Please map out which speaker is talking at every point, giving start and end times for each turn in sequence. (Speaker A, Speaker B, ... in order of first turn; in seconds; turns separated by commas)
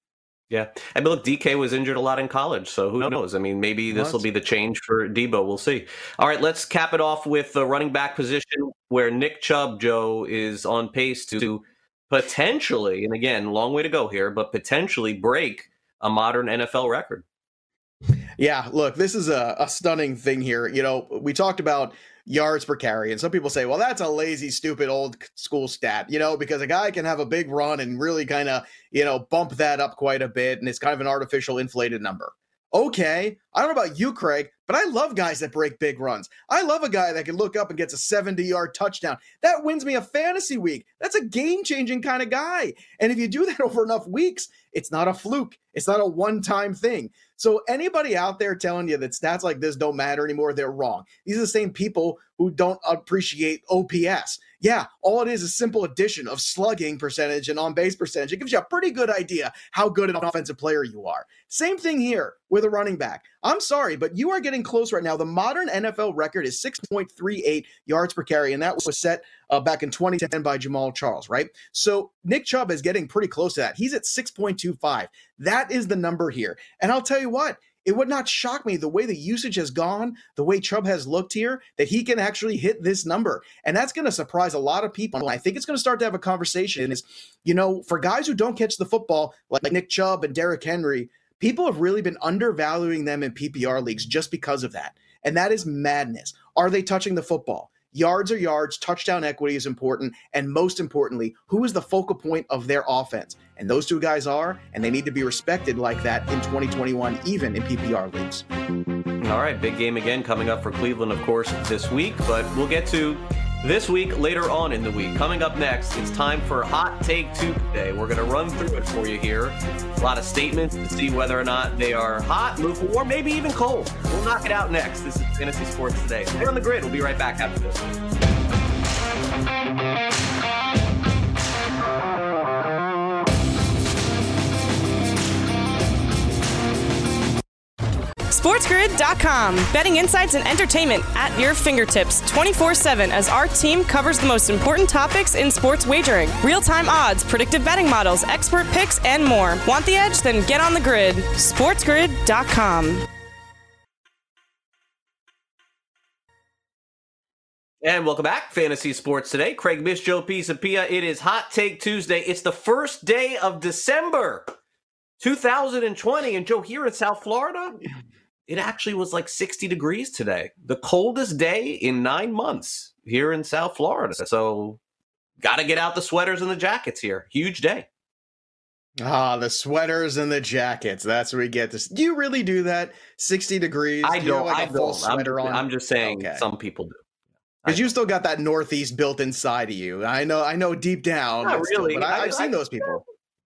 Speaker A: 0.5-17.2, Speaker B: 3.9-4.2, Speaker B: 18.4-108.4, Speaker A: 109.2-127.8, Speaker C: 138.3-153.1, Speaker A: 157.8-164.5, Speaker A: 165.2-167.8, Speaker A: 168.5-174.8, Speaker A: 175.4-177.9, Speaker B: 179.0-186.4, Speaker A: 184.0-187.0, Speaker A: 187.6-187.9, Speaker B: 187.6-193.0, Speaker A: 191.4-193.0